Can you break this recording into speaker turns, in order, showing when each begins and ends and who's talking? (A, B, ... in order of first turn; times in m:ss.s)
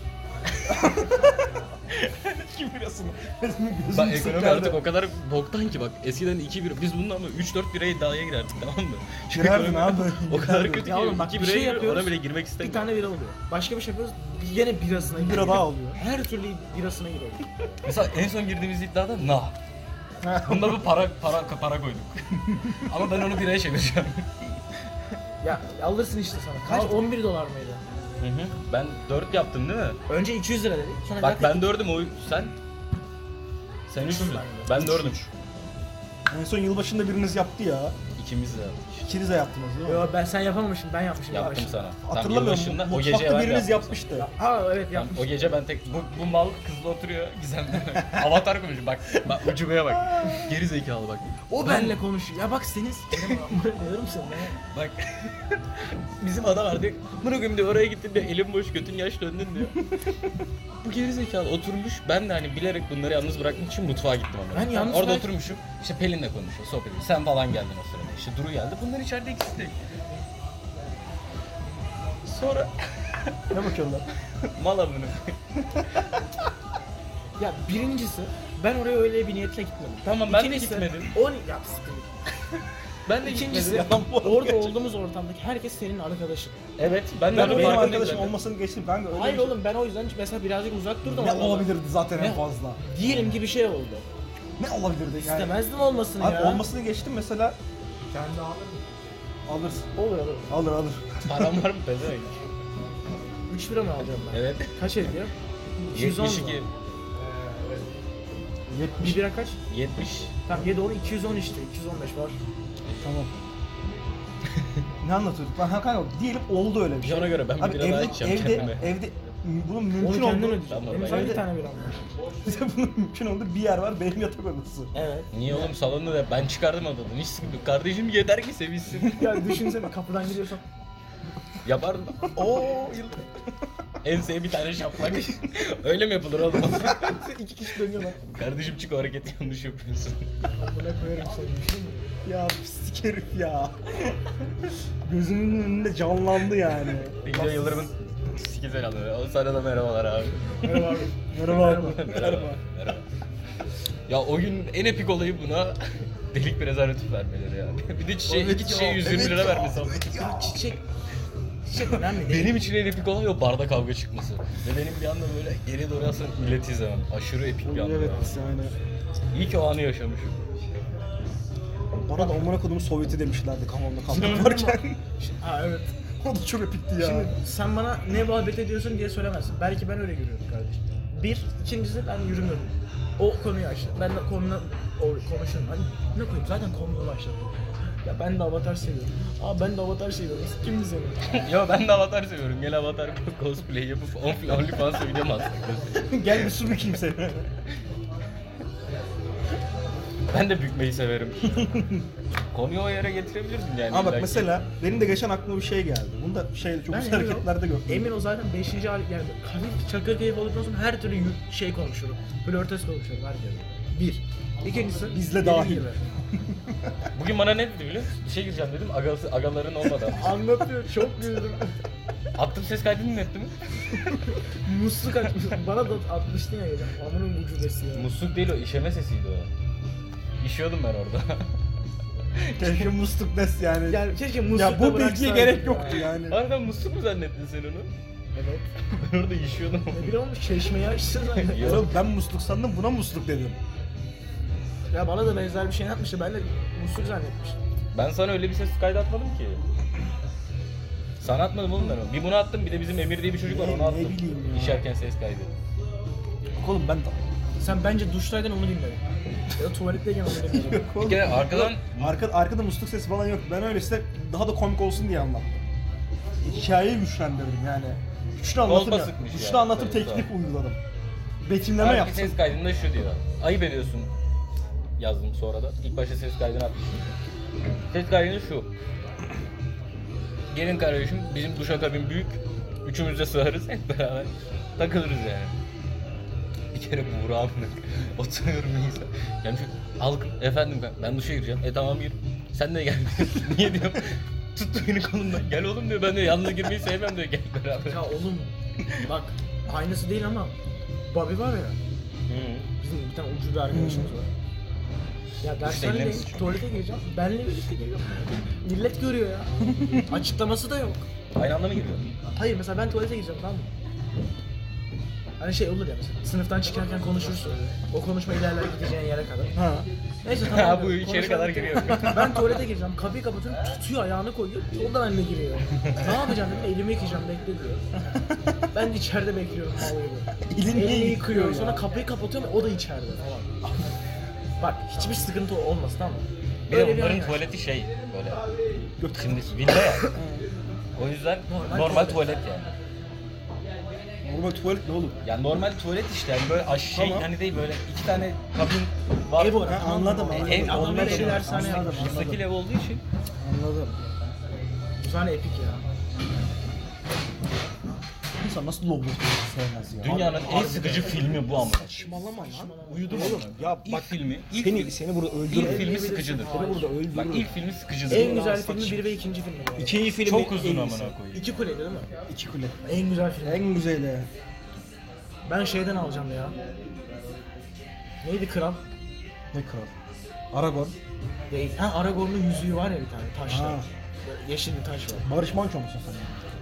0:00.7-0:04.8 A
0:03.9-0:13.0 B
0:09.3-0:10.9 A
0:10.8-0:17.4 C
0:15.2-0:16.0 A
0:17.8-0:19.6 B
0:20.2-0:20.9 A
0:20.4-0:24.4 B
0:25.4-0:27.8 C
0:26.6-0:27.0 A
0:28.2-0:30.0 B
0:30.1-0:31.7 C
0:31.2-0:32.5 B
0:33.9-0:35.3 B
0:34.0-0:34.9 C
0:34.8-0:35.3 A
0:36.3-0:38.0 A
0:38.2-0:39.1 B
0:39.1-0:40.1 A
0:39.8-0:41.8 C
0:41.3-0:44.0 B
0:42.0-0:44.3 A
0:44.2-0:45.4 C
0:44.9-0:52.0 B
0:49.9-0:50.5 A
0:51.5-0:54.6 C
0:53.1-0:53.5 B
0:54.7-0:55.6 B
0:56.2-0:59.8 B
1:00.8-1:09.8 B
1:04.5-1:05.3 C
1:12.3-1:13.6 B
1:13.5-1:14.0 A
1:14.4-1:15.4 B
1:17.4-1:22.2 C
1:20.0-1:21.1 B
1:23.1-1:24.6 B
1:23.2-1:26.6 C
1:23.5-1:24.7 A
1:26.8-1:28.4 B
1:27.3-1:29.6 A
1:27.3-1:28.1 C
1:29.1-1:34.1 C
1:31.0-1:32.8 A
1:34.6-1:35.6 A
1:35.2-1:36.6 C
1:36.2-1:37.6 A
1:38.1-1:38.8 C
1:39.5-1:39.9 A
1:40.0-1:40.5 C
1:40.5-1:41.7 A
1:41.2-1:42.5 B
1:43.5-1:45.3 C
1:44.3-1:44.7 B
1:45.9-1:46.6 C
1:45.9-1:46.7 B
1:47.2-1:47.8 C
1:48.7-1:49.3 A
1:49.0-1:49.6 C
1:49.7-1:50.3 B
1:50.4-1:52.4 C
1:53.0-1:53.5 A
1:55.0-2:01.5 A
1:57.0-1:58.9 B
2:00.0-2:02.0 C
2:00.7-2:01.4 B
2:02.4-2:04.9 A
2:04.9-2:05.7 C
2:05.3-2:09.2 B
2:09.1-2:10.6 C
2:09.1-2:09.7 A
2:11.6-2:12.4 B
2:12.4-2:13.2 C
2:14.0-2:17.3 B
2:16.8-2:18.2 C
2:18.2-2:20.3 B
2:20.6-2:22.1 C
2:22.2-2:24.2 A
2:25.0-2:27.9 A
2:27.2-2:30.6 B
2:30.6-2:32.1 C
2:31.1-2:32.6 A
2:31.6-2:33.1 B
2:34.1-2:40.3 B
2:38.3-2:39.3 C
2:39.0-2:40.5 A
2:40.1-2:40.8 C
2:41.7-2:42.6 C
2:41.9-2:48.4 B
2:47.6-2:48.7 A
2:49.3-2:50.4 B
2:52.1-2:55.0 A
2:54.1-2:56.0 C
2:54.2-2:54.5 B
2:56.2-2:57.4 A
2:57.0-3:07.5 C
3:08.0-3:11.3 C
3:11.3-3:16.1 B
3:16.0-3:17.5 A
3:20.3-3:24.5 B
3:23.9-3:28.2 A
3:26.9-3:36.0 C
3:35.1-3:37.1 A
3:37.2-3:40.4 B
3:40.1-3:41.7 C
3:42.4-3:43.6 B
3:44.6-3:48.1 C
3:47.9-3:49.5 B
3:50.4-3:51.5 B
3:52.4-3:52.9 B
3:52.6-3:56.4 A
3:53.9-3:56.1 C
3:55.9-3:57.9 B
3:58.3-3:58.7 C
3:58.8-4:00.2 B
3:59.9-4:02.0 C
4:01.3-4:01.9 B
4:01.6-4:03.6 A
4:04.9-4:07.6 C
4:07.9-4:09.6 B
4:11.2-4:15.6 B
4:13.4-4:14.9 A
4:16.6-4:17.2 A
4:17.6-4:19.0 C
4:19.6-4:20.9 C
4:20.4-4:25.6 A
4:21.0-4:22.2 B
4:26.4-4:30.8 A
4:28.6-4:30.3 B
4:31.4-4:32.4 A
4:31.8-4:34.1 B
4:35.0-4:37.1 B
4:37.9-4:38.7 B
4:40.5-4:45.6 B
4:46.7-4:58.1 B
4:57.8-5:00.6 C
5:01.1-5:01.8 C
5:02.3-5:02.7 B
5:02.8-5:04.3 C
5:03.7-5:04.1 A
5:05.4-5:09.5 C
5:05.6-5:06.6 B
5:09.6-5:10.1 A
5:10.0-5:11.0 C
5:11.3-5:12.1 B
5:12.4-5:13.7 C
5:15.4-5:19.5 C
5:19.6-5:19.9 A
5:20.2-5:27.8 C
5:20.4-5:22.6 B
5:21.8-5:22.3 A
5:28.1-5:28.7 A
5:28.7-5:33.5 C
5:30.4-5:31.8 A
5:34.6-5:37.5 C
5:36.7-5:38.4 B
5:39.0-5:39.6 A
5:39.2-5:40.2 B
5:39.9-5:40.2 C
5:40.1-5:40.5 A
5:41.0-5:42.7 B
5:41.5-5:42.3 C
5:44.2-5:45.2 A
5:45.2-5:49.8 B
5:46.9-5:47.3 A
5:49.4-5:52.2 C
5:49.6-5:52.5 A
5:50.3-5:53.0 B
5:53.4-5:54.0 A
5:55.0-5:55.8 C
5:58.4-6:07.5 A
6:00.0-6:02.0 B
6:00.1-6:03.5 C
6:02.9-6:06.6 B
6:05.5-6:06.9 C
6:07.1-6:08.4 B
6:08.1-6:09.1 A
6:08.1-6:10.1 C
6:09.8-6:11.2 A
6:10.2-6:11.5 B
6:11.3-6:12.1 C
6:12.3-6:12.8 A
6:12.8-6:13.7 C
6:13.4-6:14.3 A
6:15.5-6:16.6 C
6:18.2-6:18.8 C
6:19.5-6:19.9 A
6:20.5-6:21.0 A
6:21.5-6:25.3 C
6:23.5-6:23.9 A
6:25.2-6:26.4 A